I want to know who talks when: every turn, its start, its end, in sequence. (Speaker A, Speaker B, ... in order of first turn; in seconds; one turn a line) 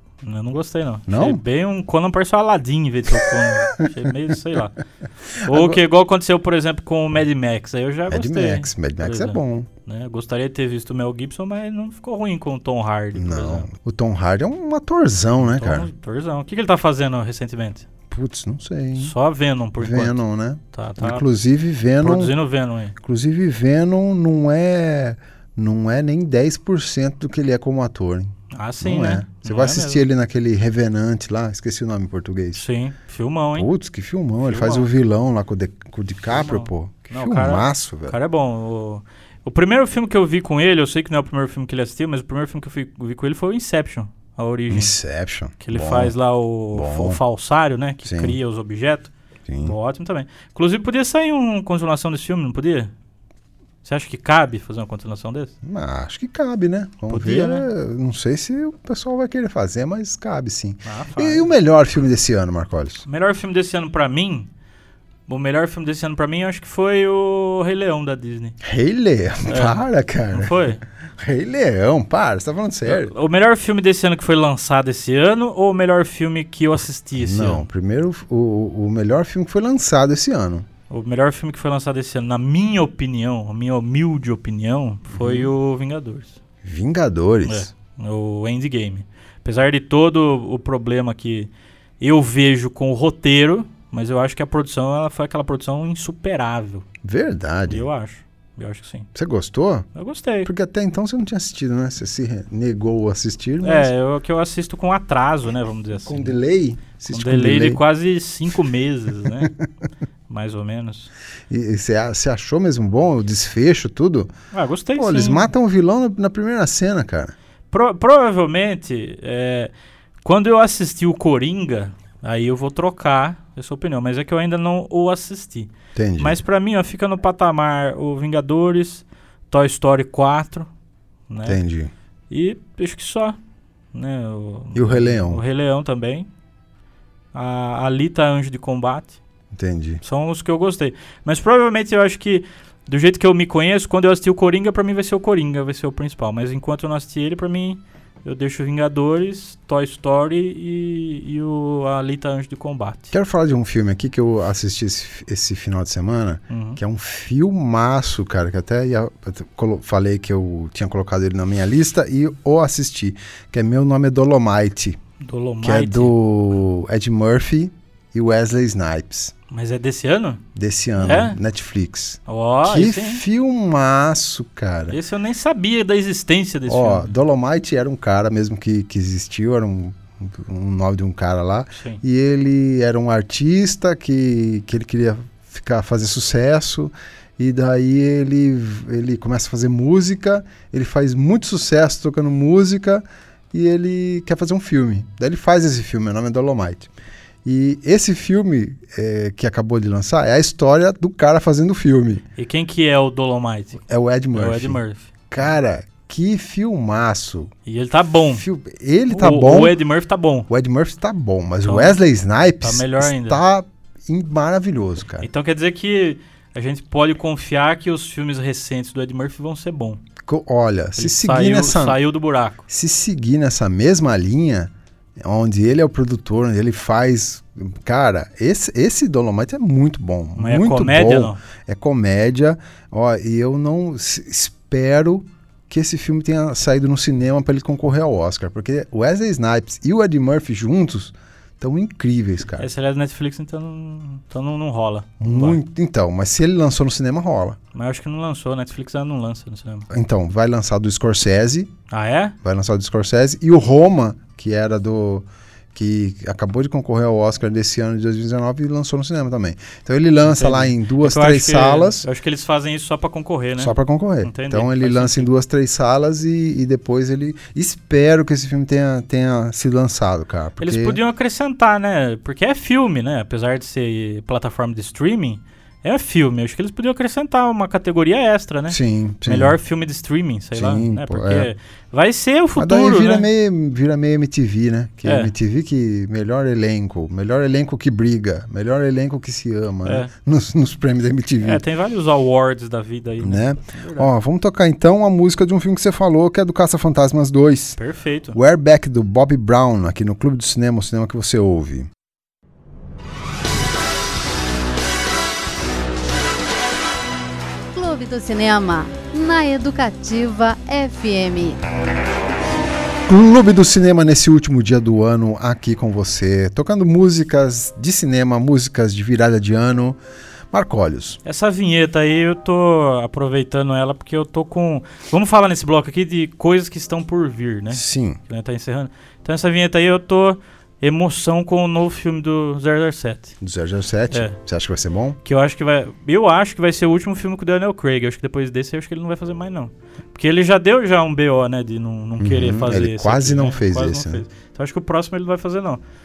Speaker A: 0.2-4.8
Speaker B: 1.1-1.4
Speaker B: 3.1-3.9
Speaker B: 5.4-5.8
Speaker A: 5.4-13.7
Speaker B: 8.1-9.7
Speaker B: 13.2-15.9
Speaker A: 15.4-17.9
Speaker B: 18.1-19.1
Speaker A: 19.0-20.2
Speaker B: 19.8-22.3
Speaker A: 20.7-21.2
Speaker A: 22.0-22.9
Speaker B: 23.0-32.6
Speaker A: 28.5-30.1
Speaker A: 32.5-33.7
Speaker B: 33.6-38.2
Speaker A: 34.4-34.9
Speaker A: 36.3-45.0
Speaker B: 44.7-46.1
Speaker A: 45.6-49.1
Speaker B: 46.7-47.2
Speaker B: 48.0-48.4
Speaker B: 49.5-49.8
Speaker A: 49.6-52.9
Speaker A: 53.8-55.5
Speaker B: 55.6-63.0
Speaker A: 57.1-57.7
Speaker A: 60.9-61.5
Speaker A: 63.0-64.5
Speaker A: 65.3-68.6
Speaker B: 68.6-70.5
Speaker A: 69.5-69.8
Speaker A: 70.3-70.8
Speaker B: 71.2-73.1
Speaker A: 72.9-77.7
Speaker B: 77.2-80.7
Speaker A: 80.9-86.4
Speaker B: 85.1-85.5
Speaker B: 86.6-87.7
Speaker A: 87.5-96.8
Speaker B: 97.0-97.9
Speaker A: 97.7-99.1
Speaker B: 99.2-99.9
Speaker A: 100.0-100.5
Speaker B: 100.5-103.9
Speaker A: 103.6-106.4
Speaker B: 106.0-107.8
Speaker A: 107.1-109.5
Speaker B: 109.3-109.6
Speaker A: 110.3-111.1
Speaker B: 111.5-114.3
Speaker A: 114.5-115.5
Speaker B: 115.0-117.3
Speaker A: 117.7-119.7
Speaker A: 120.2-130.7
Speaker B: 126.0-126.4
Speaker A: 131.3-131.6
Speaker B: 131.5-131.9
Speaker A: 132.3-133.4
Speaker A: 133.9-136.3
Speaker B: 134.7-135.4
Speaker A: 137.3-139.2
Speaker B: 139.5-140.0
Speaker A: 140.0-153.1
Speaker B: 153.1-165.0
Speaker A: 156.5-156.8
Speaker A: 165.2-166.2
Speaker B: 165.6-169.3
Speaker A: 169.5-170.4
Speaker B: 170.6-175.0
Speaker A: 171.0-171.4
Speaker A: 172.3-173.2
Speaker A: 174.9-177.1
Speaker B: 176.7-196.9
Speaker A: 181.7-182.0
Speaker B: 197.4-202.2
Speaker A: 202.4-203.8
Speaker B: 203.8-207.5
Speaker A: 204.3-205.1
Speaker A: 207.7-208.4
Speaker B: 208.4-209.8
Speaker A: 209.1-210.5
Speaker B: 210.5-215.3
Speaker A: 211.7-212.0
Speaker A: 212.6-213.4
Speaker A: 215.2-220.0
Speaker B: 220.2-222.0
Speaker A: 221.0-222.6
Speaker B: 222.7-242.7
Speaker A: 230.4-231.4
Speaker A: 242.6-245.6
Speaker B: 245.2-247.6
Speaker A: 247.7-249.9
Speaker B: 249.9-251.7
Speaker A: 251.9-252.3
Speaker B: 252.4-262.1
Speaker A: 260.2-265.3
Speaker B: 263.6-271.0
Speaker A: 270.6-283.3
Speaker B: 278.7-279.6
Speaker B: 280.6-281.5
Speaker B: 282.6-291.6
Speaker A: 285.1-285.3
Speaker A: 289.9-290.1
Speaker A: 291.4-294.1
Speaker B: 293.2-297.8
Speaker A: 297.8-298.4
Speaker B: 298.3-301.9
Speaker C: 307.7-311.6
Speaker B: 313.1-320.0
Speaker B: 320.5-321.2
Speaker A: 321.2-333.4
Speaker B: 327.7-328.2
Speaker B: 333.4-335.2
Speaker A: 334.1-334.4
Speaker A: 335.2-345.8
Speaker B: 342.2-344.2